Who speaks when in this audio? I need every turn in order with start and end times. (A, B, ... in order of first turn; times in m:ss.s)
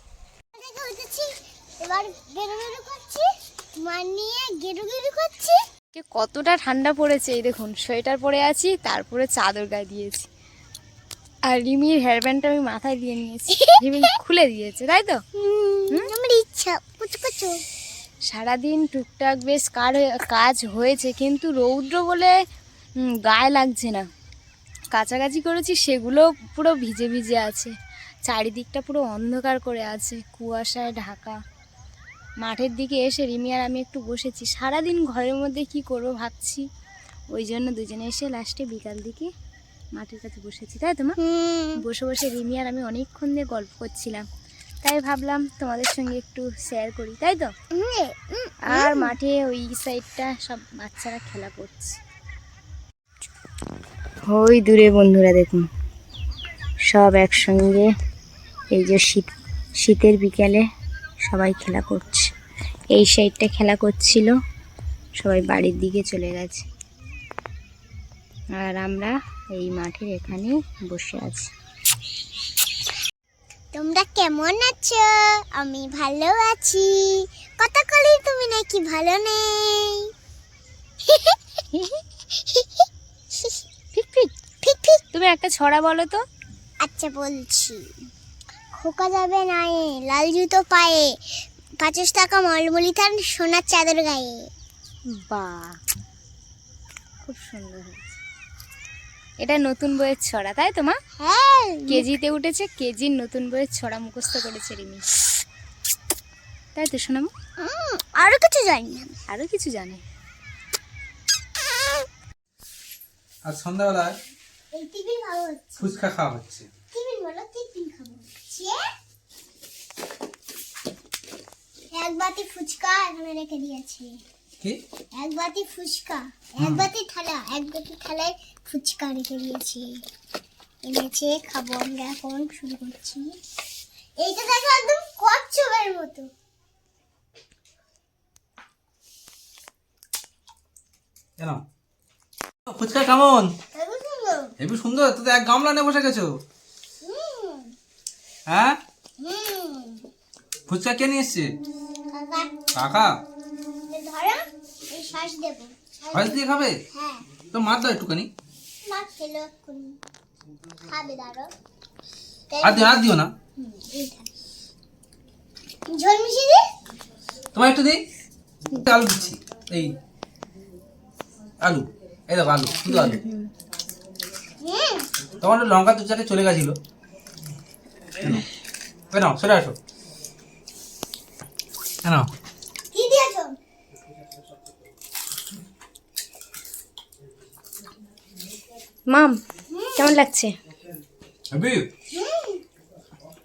0:00.5-0:03.3 A
0:03.8-0:05.6 A
0:05.9-0:10.3 B
0:11.5-0:15.2 B
0:13.5-0:14.1 A
0:15.3-0:17.6 A
0:18.3-0:22.3 B
0:23.2-0:24.0 B
0:24.9-0:27.7 B
0:28.2-0:31.4 B
0:32.4-0:36.6 B
0:37.3-0:39.3 B
0:40.0-0:41.2 B
0:41.2-0:41.8 A
0:41.8-0:44.2 B
0:44.8-0:47.5 B
0:47.7-0:49.1 A
0:48.7-0:52.0 B
0:54.3-0:55.6 B
0:56.9-0:57.8 B
0:58.7-0:59.3 B
0:59.8-1:00.6 B
1:01.3-1:02.2 B
1:02.9-1:04.3 B
1:05.2-1:06.6 B
1:08.6-1:11.5 B
1:13.7-1:20.1 A
1:21.0-1:21.4 A
1:22.3-1:23.6 A
1:23.9-1:24.3 B
1:24.6-1:25.0 A
1:25.1-1:26.2 B
1:26.8-1:27.9 A
1:28.7-1:34.5 A
1:35.1-1:35.8 B
1:37.2-1:38.2 B
1:39.4-1:41.0 B
1:41.2-1:42.1 A
1:41.9-1:45.0 B
1:46.7-1:47.3 B
1:47.6-1:49.2 A
1:49.3-1:50.0 B
1:53.4-1:54.1 C
1:54.7-1:56.0 A
1:55.8-1:56.7 C
1:56.9-1:58.8 A
2:01.9-2:04.2 A
2:05.1-2:10.0 A
2:06.6-2:06.9 C
2:10.8-2:13.4 A
2:14.2-2:16.3 A
2:22.7-2:23.5 C
2:23.7-2:24.6 A
2:24.6-2:26.4 C
2:27.0-2:27.7 A
2:28.5-2:28.8 C
2:29.2-2:30.1 A
2:30.7-2:31.5 C
2:32.1-2:32.6 A
2:32.7-2:33.1 C
2:33.9-2:37.2 A
2:36.1-2:36.8 C
2:37.5-2:38.3 C
2:38.8-2:40.0 A
2:40.8-2:41.5 A
2:42.5-2:44.3 A
2:42.6-2:43.3 C
2:45.9-2:46.6 A
2:47.5-2:48.0 C
2:48.8-2:49.9 C
2:51.6-2:53.2 C
2:52.9-2:53.5 B
2:54.6-2:55.1 A
2:55.4-2:56.8 C
2:59.1-2:59.7 C
3:02.9-3:03.6 A
3:09.1-3:09.4 B
3:09.7-3:10.2 A
3:10.0-3:10.5 B
3:11.5-3:11.9 C
3:12.1-3:12.6 A